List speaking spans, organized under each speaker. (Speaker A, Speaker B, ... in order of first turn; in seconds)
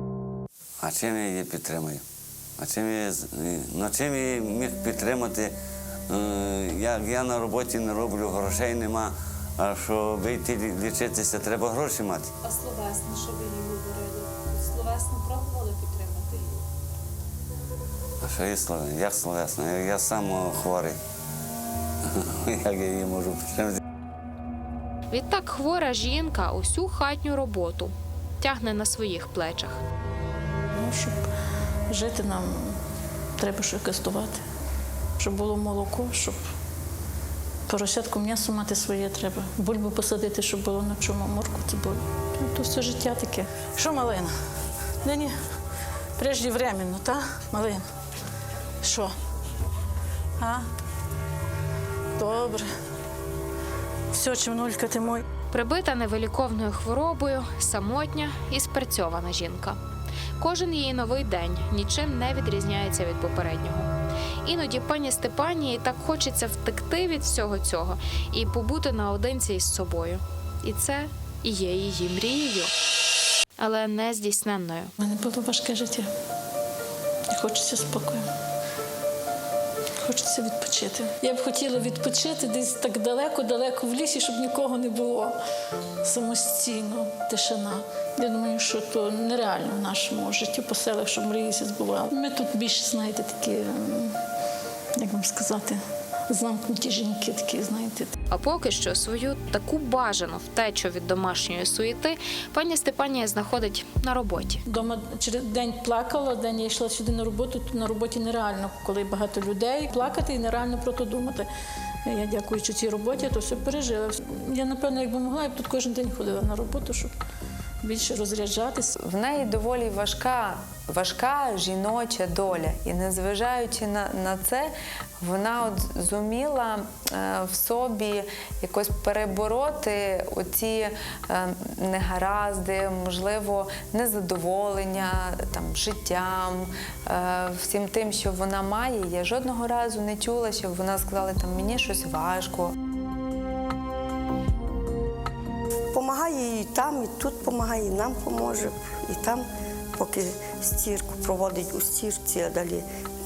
Speaker A: 0.8-2.0, 2.6-5.5, 6.1-12.3, 18.2-21.0, 22.0-23.8
Speaker B: 12.4-16.6
Speaker C: 25.1-29.8, 55.5-59.8, 60.4-63.9, 64.4-72.7, 73.6-74.9, 98.3-104.6
Speaker D: 30.7-31.3, 31.9-32.8, 33.4-34.4, 35.2-36.5, 37.7-44.3, 45.0-45.4, 46.2-47.8, 48.8-49.1, 50.4-50.7, 52.1-52.7, 54.1-55.2, 75.0-76.1, 77.3-78.3, 80.0-85.3, 86.0-94.2, 95.0-98.1, 104.7-111.5, 112.0-117.1, 117.8-118.9
Speaker E: 118.9-142.7
Speaker F: 145.9-149.4, 150.0-152.8